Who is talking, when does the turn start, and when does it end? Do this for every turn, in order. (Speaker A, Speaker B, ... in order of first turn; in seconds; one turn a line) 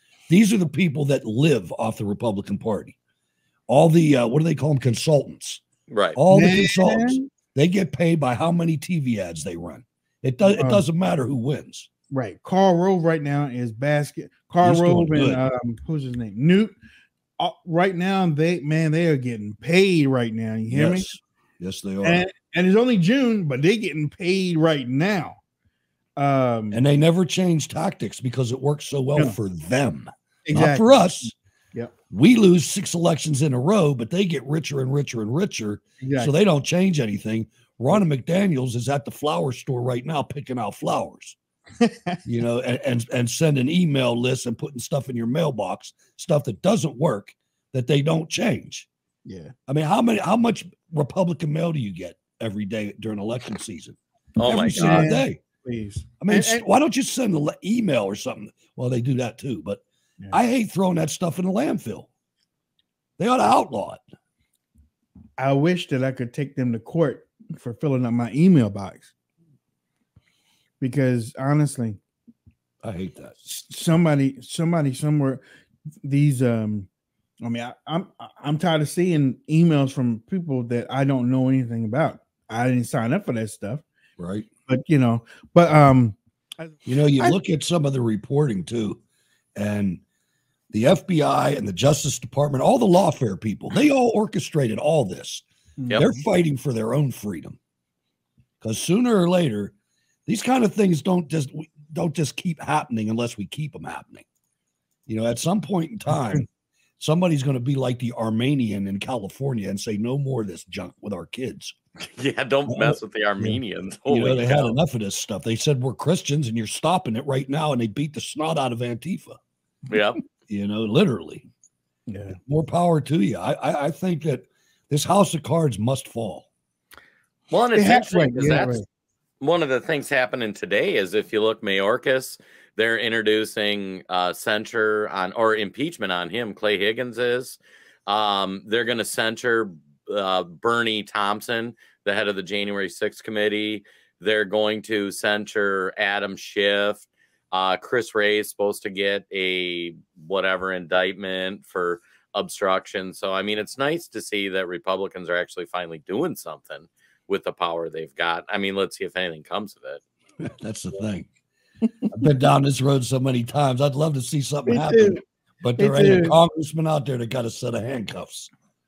Speaker A: 0.3-3.0
Speaker A: 3.7-5.6
Speaker B: 5.9-6.2
Speaker A: 6.2-11.9
Speaker C: 6.3-7.3
Speaker C: 10.5-10.8
Speaker C: 12.1-16.7
Speaker A: 14.6-15.4
Speaker C: 17.4-21.1
Speaker A: 20.7-22.2
Speaker C: 22.0-25.4
Speaker C: 26.2-26.8
Speaker A: 26.7-31.3
Speaker C: 30.4-31.9
Speaker A: 32.1-41.4
Speaker C: 36.0-36.3
Speaker C: 41.8-42.2
Speaker A: 42.2-48.9
Speaker C: 49.2-49.5
Speaker A: 49.7-55.4
Speaker B: 54.4-55.1
Speaker C: 54.7-56.6
Speaker A: 56.2-62.1
Speaker A: 63.2-64.0
Speaker C: 65.4-69.1
Speaker C: 70.8-72.0
Speaker A: 72.8-73.4
Speaker C: 73.4-75.4
Speaker C: 76.0-76.9
Speaker C: 77.4-83.8
Speaker A: 84.2-84.5
Speaker C: 84.7-87.3
Speaker A: 86.8-89.0
Speaker A: 89.5-90.0
Speaker A: 90.7-95.4
Speaker C: 95.8-96.2
Speaker A: 95.9-97.6
Speaker A: 98.6-99.7
Speaker A: 100.2-104.2
Speaker A: 105.1-106.5
Speaker C: 106.1-106.4
Speaker A: 107.0-111.7
Speaker B: 112.2-114.8
Speaker A: 112.7-113.0
Speaker A: 114.1-119.4
Speaker B: 119.9-120.2
Speaker A: 120.5-121.5
Speaker C: 122.1-122.4
Speaker A: 122.3-126.5
Speaker B: 127.5-128.8
Speaker C: 127.7-128.8
Speaker B: 129.4-160.0
Speaker A: 160.4-161.3
Speaker A: 162.1-168.5
Speaker C: 164.7-165.2
Speaker C: 165.8-166.4